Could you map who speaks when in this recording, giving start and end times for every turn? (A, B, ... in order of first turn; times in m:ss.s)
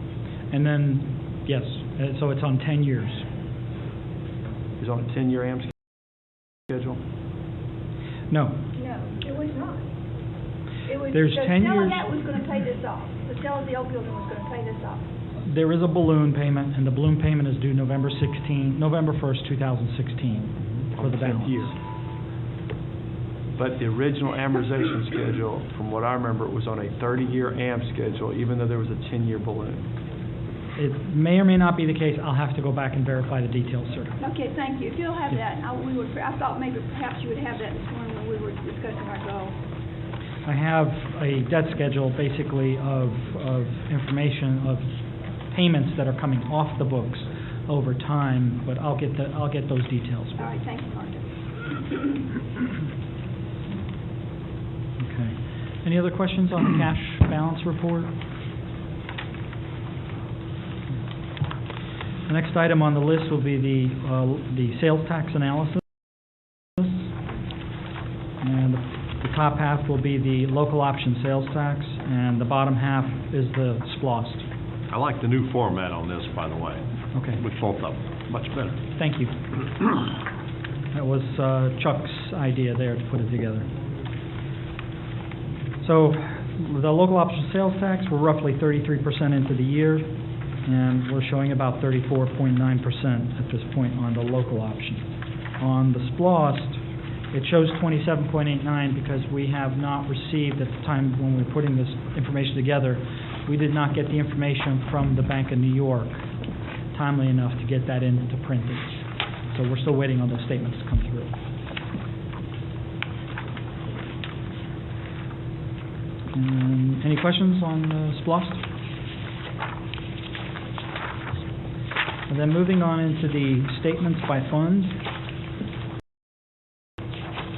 0:00.5-0:03.2 A
0:04.8-0:05.7 B
0:06.7-0:07.0 B
0:08.3-0:08.6 A
0:08.7-0:09.8 C
0:10.8-0:14.9 C
0:11.0-0:12.0 A
0:15.4-0:21.8 A
0:20.9-0:21.7 B
0:23.6-0:29.9 B
0:30.8-0:34.2 A
0:34.2-0:39.6 C
0:40.4-0:50.5 A
0:50.4-0:51.3 C
0:55.0-0:58.1 A
1:02.3-1:05.8 A
1:08.4-1:14.4 A
1:14.9-1:18.8 D
1:17.1-1:17.4 A
1:19.0-1:19.4 A
1:20.9-1:23.7 A
1:25.8-1:35.1 A
1:35.6-1:46.3 A
1:46.9-1:51.3 A
1:56.3-1:58.6 A
2:02.3-2:05.0 A